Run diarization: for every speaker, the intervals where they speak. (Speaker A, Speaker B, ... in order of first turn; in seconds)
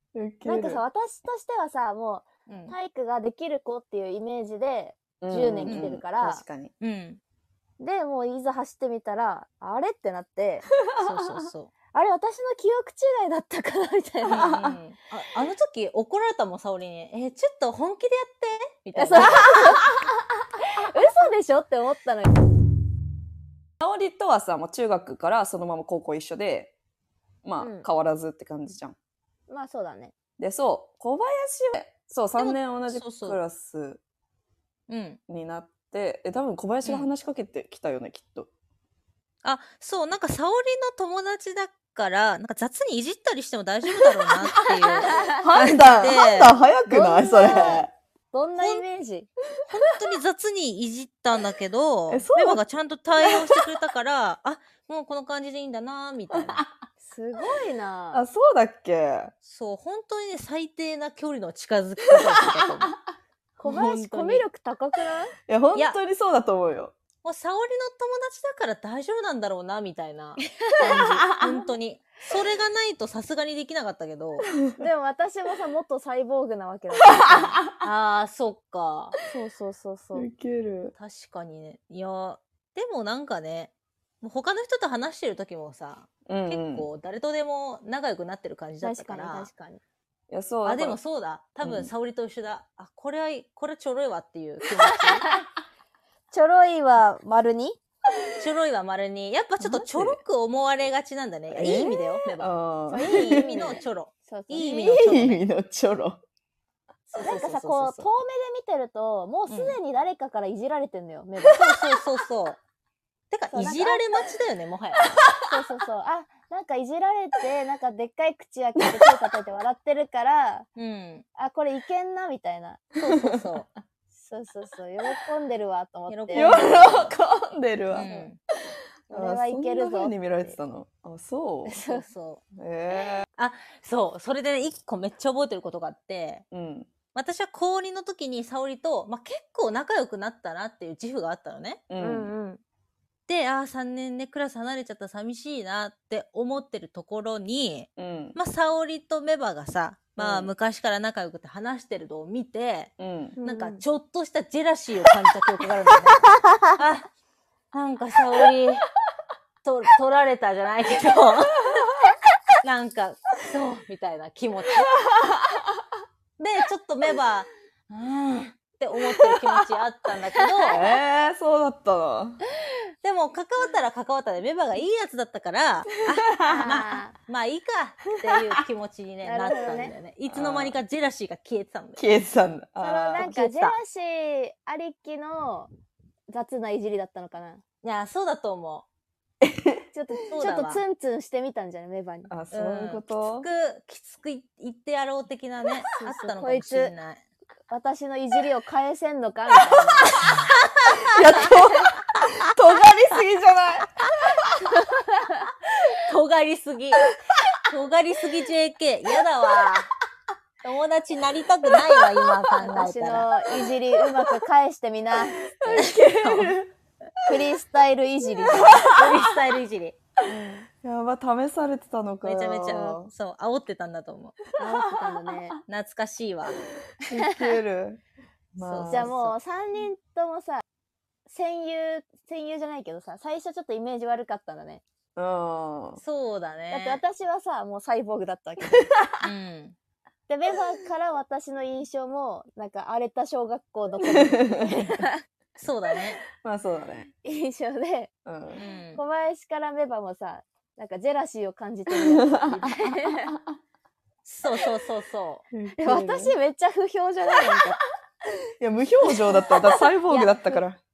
Speaker A: 0.1-0.8, 5.2-6.7, 14.3-14.8, 23.8-26.7, 27.4-28.9, 30.4-34.0, 35.3-38.5, 45.2-47.9, 52.1-52.6, 58.1-59.3, 65.5-66.9, 80.1-80.9, 86.3-86.9, 90.3-91.0, 91.6-91.9, 99.6-100.2, 101.5-103.6, 104.8-106.2, 107.1-108.0, 123.0-123.4, 126.3-128.1, 129.1-131.7, 132.6-133.3, 136.5-136.9, 141.9-142.3, 148.0-148.3, 150.2-150.5, 153.0-153.3, 170.7-172.4, 176.4-176.7, 180.3-180.8, 182.0-183.3, 189.4-189.8, 192.3-193.5, 201.1-204.5, 215.6-216.7, 218.5-219.2, 220.8-223.1, 227.0-228.0, 228.5-229.1, 235.2-236.0, 244.1-244.9, 246.4-247.1, 248.2-248.6, 251.9-252.4, 255.5-256.3, 258.6-260.8
Speaker B: 0.4-6.4, 7.8-10.7, 11.9-14.6, 18.9-19.9, 20.7-22.3, 27.6-27.9, 29.5-30.1, 45.0-45.4, 46.9-49.3, 57.0-58.2, 63.6-65.3, 70.7-71.0, 74.8-77.6, 79.3-80.3, 88.8-89.8, 96.3-97.8, 102.9-105.0, 107.1-111.6, 113.5-114.2, 115.4-120.7, 121.3-122.9, 124.1-126.8, 128.0-128.3, 129.1-130.6, 131.7-132.1, 142.0-142.6, 153.4-153.8, 176.4-177.1, 179.2-179.9, 182.8-185.7, 186.3-187.6, 189.9-192.3, 195.9-196.9, 197.7-200.2, 204.7-205.5, 212.6-215.9, 217.3-218.8, 220.2-220.7, 224.6-225.6, 227.2-227.5, 228.9-230.6, 231.3-234.8, 236.7-238.9, 240.3-245.2, 247.2-248.1, 248.9-253.3, 255.8-257.8, 259.3-260.6
Speaker C: 2.5-2.7, 6.8-7.2, 11.0-11.7, 14.3-19.4, 32.4-33.4, 34.9-35.2, 36.8-37.1, 39.4-46.5, 49.7-56.6, 59.4-62.9, 63.6-64.4, 67.2-74.5, 77.8-79.2, 81.0-89.5, 90.6-95.3, 98.4-105.4, 109.5-109.7, 111.5-112.6, 113.3-115.0, 120.8-121.2, 123.0-123.7, 126.1-127.1, 127.9-128.4, 131.8-132.4, 133.4-136.4, 137.1-141.8, 143.3-156.2, 156.8-157.0, 157.7-158.9, 159.6-161.7, 162.6-164.9, 166.4-170.8, 173.0-182.1, 183.2-183.7, 187.8-188.8, 190.3-190.8, 192.5-197.2, 200.2-200.5, 206.0-207.1, 207.7-209.9, 210.6-213.3, 215.8-216.6, 218.5-220.0, 222.2-224.4, 225.7-226.6, 228.6-229.3, 236.0-237.0, 239.2-239.7, 245.6-246.2, 248.5-249.0, 254.2-255.4